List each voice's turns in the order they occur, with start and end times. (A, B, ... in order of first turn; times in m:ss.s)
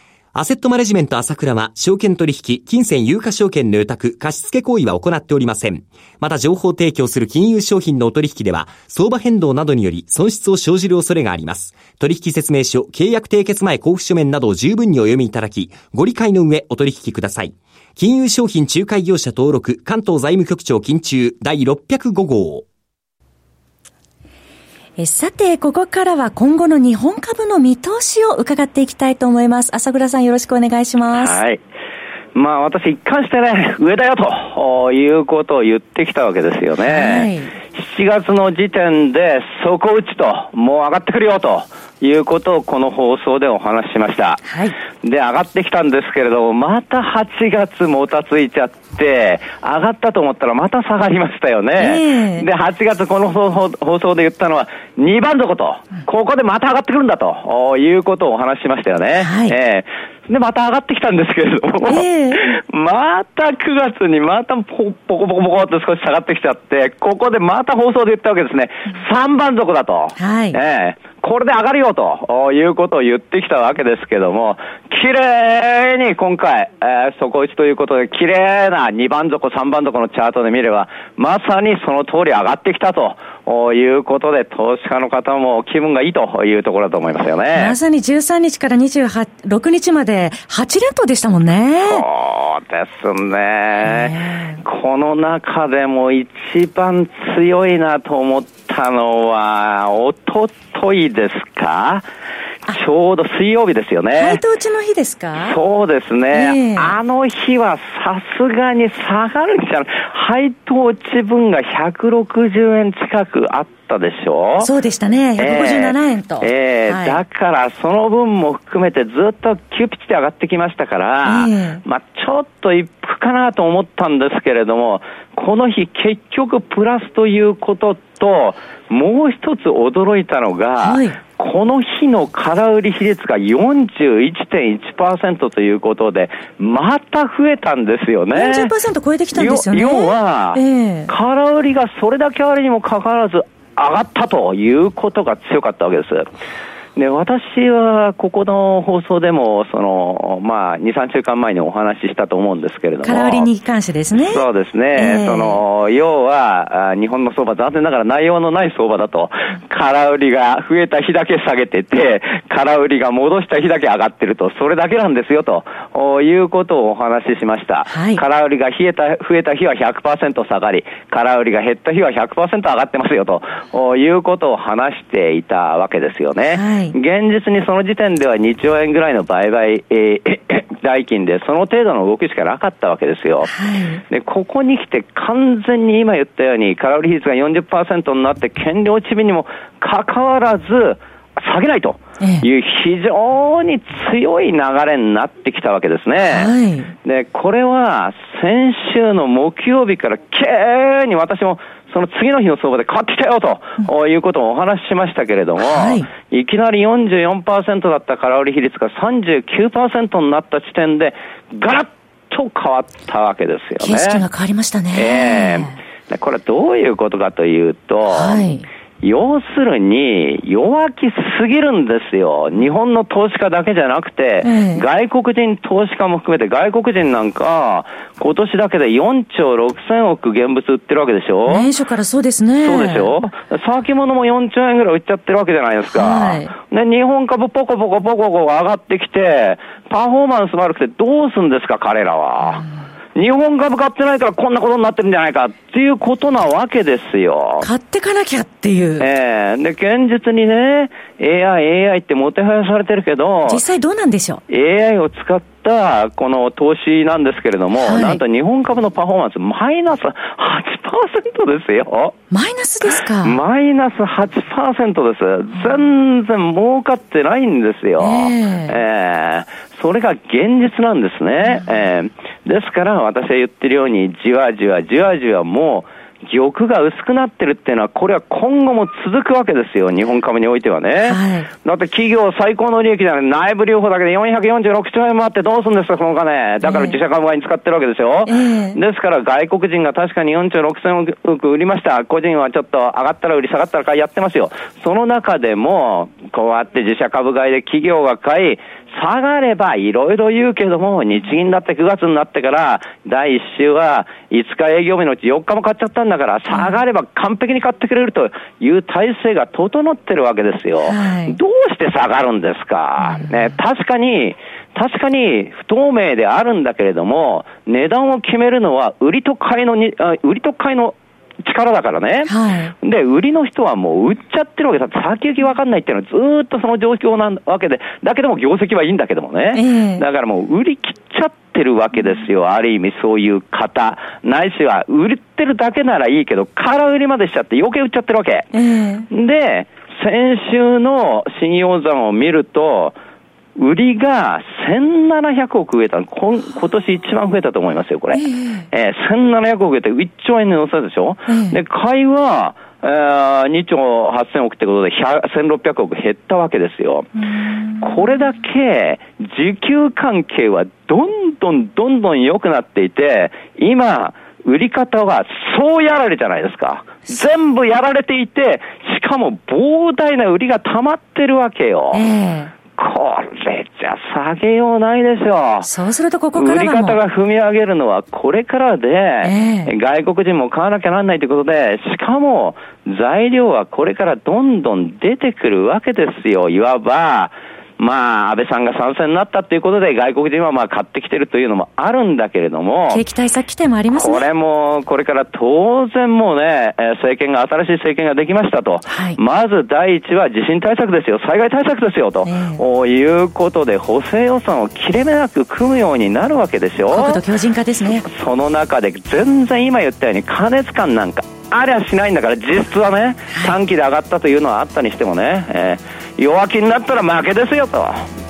0:00.3-0:22.6 A
0:25.0-0:31.4 B
0:31.1-0:31.6 C
0:32.3-0:44.4 C
0:36.8-0:37.5 B
0:44.4-0:44.7 B
0:45.0-1:27.8 C
0:51.8-0:52.4 B
0:59.2-0:59.5 B
1:01.9-1:02.4 B
1:10.2-1:10.6 B
1:27.5-1:32.0 B
1:31.8-1:42.0 C
1:33.8-1:34.6 B
1:42.7-1:44.4 C
1:44.2-1:45.6 B
1:45.4-1:54.7 C
1:46.3-1:46.9 B
1:54.6-1:57.2 B
1:55.4-2:18.7 C
2:01.2-2:01.8 B
2:10.8-2:11.2 B
2:18.3-2:21.1 B
2:19.3-2:26.2 C
2:27.0-2:33.5 C
2:33.0-2:35.6 B
2:34.2-3:03.5 C
2:47.9-2:48.2 B
2:56.5-2:56.9 B
3:03.4-3:04.0 B
3:04.1-3:16.5 C
3:16.2-3:16.9 B
3:17.0-3:34.2 C
3:25.6-3:26.1 B
3:33.8-3:35.7 B
3:34.9-3:38.5 C
3:38.1-3:38.6 B
3:39.0-3:51.7 C
3:44.4-3:44.8 B
3:51.5-3:53.1 B
3:52.6-4:07.7 C
3:55.9-3:56.5 B
4:07.6-4:09.0 B
4:09.0-4:13.6 C
4:13.5-4:14.4 B
4:14.5-4:22.1 C
4:17.7-4:18.2 B
4:22.3-4:23.4 B
4:23.2-5:38.5 C
4:25.5-4:25.8 B
4:28.0-4:28.8 B
4:41.0-4:41.5 B
4:46.6-4:47.0 B
4:48.2-4:48.8 B
5:10.8-5:11.4 B
5:22.2-5:22.7 B
5:29.5-5:30.0 B
5:38.5-5:39.1 B
5:39.1-5:43.0 C
5:43.6-5:57.1 C
5:48.1-5:48.6 B
5:51.3-5:51.6 B
5:57.2-5:58.1 B
5:57.8-6:12.1 C
6:11.9-6:12.5 B
6:12.7-6:15.7 C
6:15.6-6:17.0 B
6:16.4-6:33.0 C
6:19.2-6:19.7 B
6:32.9-6:34.3 B
6:33.9-6:47.2 C
6:38.9-6:39.2 B
6:42.2-6:42.6 B
6:46.9-6:48.0 B
6:48.0-6:58.1 C